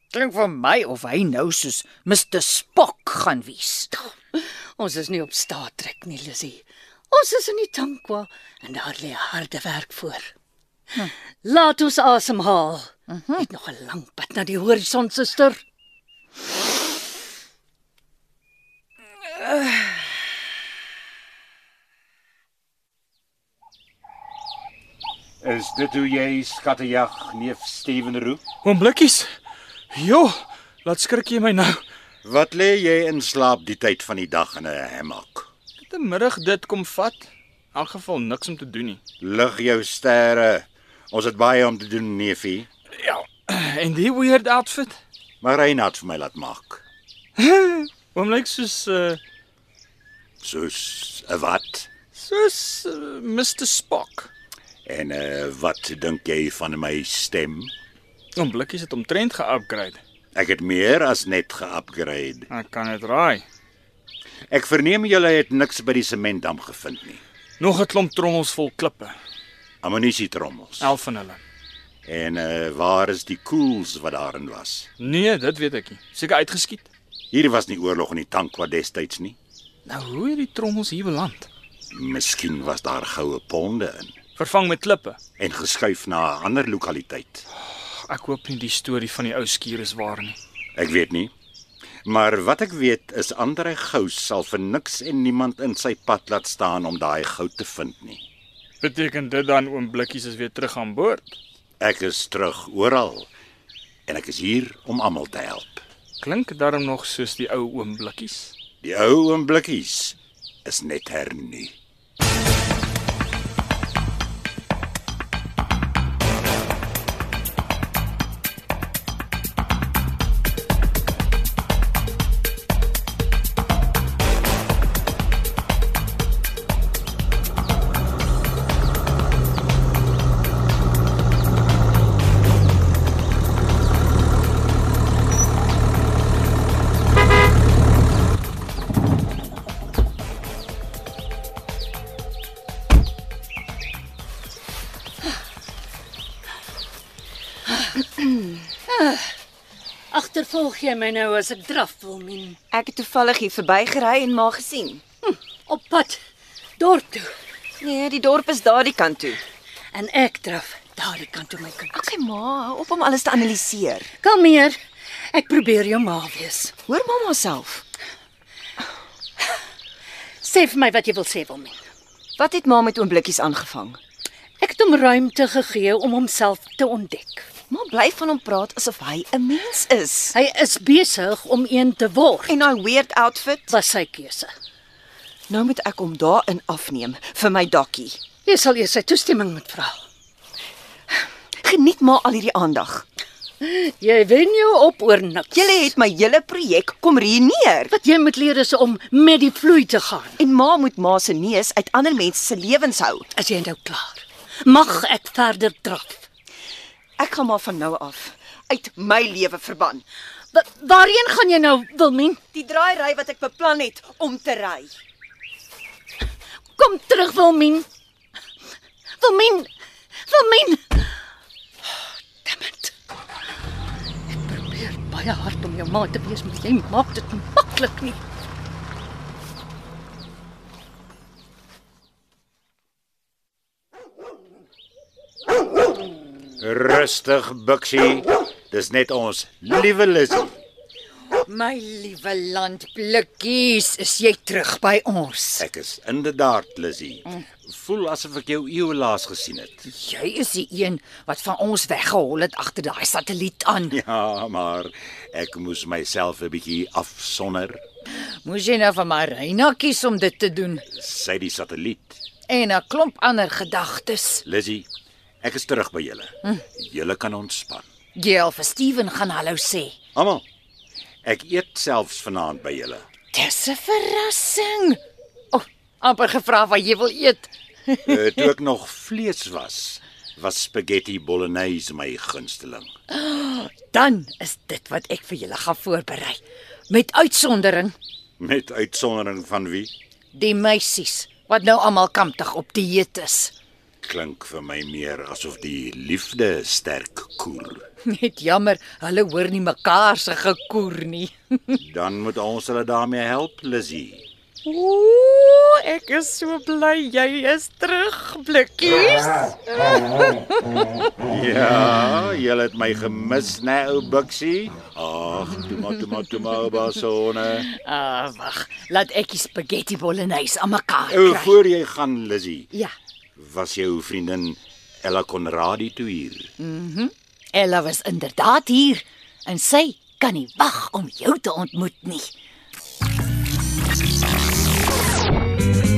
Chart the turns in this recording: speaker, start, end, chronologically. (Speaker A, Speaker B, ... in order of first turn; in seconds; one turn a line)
Speaker A: 0.1-4.1
Speaker B: 4.3-10.3
Speaker B: 11.4-15.6
Speaker A: 13.1-13.4
Speaker C: 25.4-28.4
Speaker D: 28.6-29.3
Speaker D: 29.9-30.3
Speaker D: 30.9-31.8
Speaker C: 32.2-35.5
Speaker D: 35.8-39.0
Speaker C: 39.2-42.7
Speaker D: 43.0-45.0
Speaker C: 45.4-46.8
Speaker D: 47.4-49.2
Speaker C: 50.4-51.9
Speaker D: 52.2-54.3
Speaker C: 54.9-57.7
Speaker D: 58.4-60.0
Speaker C: 60.4-62.5
Speaker D: 62.5-63.4
Speaker C: 64.5-67.2
Speaker D: 67.6-69.2
Speaker C: 69.8-71.0
Speaker D: 70.8-71.4
Speaker C: 72.1-74.9
Speaker D: 75.0-76.9
Speaker C: 77.3-79.4
Speaker D: 79.9-81.5
Speaker C: 81.9-84.1
Speaker D: 84.4-85.2
Speaker C: 85.4-87.5
Speaker D: 88.0-90.4
Speaker C: 90.8-91.3
Speaker C: 92.0-98.2
Speaker D: 98.8-101.4
Speaker C: 101.8-103.3
Speaker C: 104.1-105.8
Speaker D: 106.2-108.5
Speaker C: 108.8-111.8
Speaker B: 148.9-149.3
Speaker B: 150.1-152.6
Speaker E: 152.7-155.0
Speaker B: 155.2-156.2
Speaker B: 156.8-157.3
Speaker E: 157.8-159.4
Speaker B: 159.9-162.1
Speaker E: 161.9-164.1
Speaker B: 164.2-164.8
Speaker B: 165.3-166.7
Speaker E: 166.9-167.8
Speaker B: 170.4-171.8
Speaker E: 172.4-174.0
Speaker B: 174.6-177.5
Speaker E: 177.7-180.3
Speaker B: 180.3-182.5
Speaker E: 182.5-183.7
Speaker B: 183.7-184.5
Speaker E: 185.5-188.2
Speaker B: 188.4-190.0
Speaker E: 191.6-193.0
Speaker B: 193.6-195.9
Speaker E: 195.5-197.9
Speaker B: 197.9-200.4
Speaker E: 200.4-203.3
Speaker B: 203.4-206.3
Speaker E: 207.2-210.0
Speaker B: 210.5-212.4
Speaker E: 212.5-214.9
Speaker B: 216.8-217.9
Speaker B: 219.2-219.7
Speaker B: 220.3-221.2
Speaker B: 222.4-222.9
Speaker B: 224.3-228.2
Speaker C: 236.6-240.6
Speaker A: 241.4-245.7
Speaker C: 245.6-249.9
Speaker A: 249.9-254.0
Speaker C: 253.9-257.8
Speaker A: 258.4-260.8
Speaker C: 260.9-262.2
Speaker A: 262.5-264.4
Speaker C: 264.4-264.9
Speaker C: 265.4-267.9
Speaker A: 268.2-269.9
Speaker C: 270.1-270.4
Speaker C: 271.2-273.1
Speaker A: 273.3-275.0
Speaker A: 275.5-278.1
Speaker C: 278.1-282.9
Speaker A: 283.1-287.9
Speaker C: 288.4-289.9
Speaker A: 290.3-293.5
Speaker C: 294.0-297.8
Speaker A: 298.1-301.8
Speaker C: 301.8-304.2
Speaker A: 304.6-309.9
Speaker C: 311.3-317.7
Speaker A: 317.7-321.6
Speaker C: 321.1-322.7
Speaker C: 323.4-326.5
Speaker A: 326.6-332.3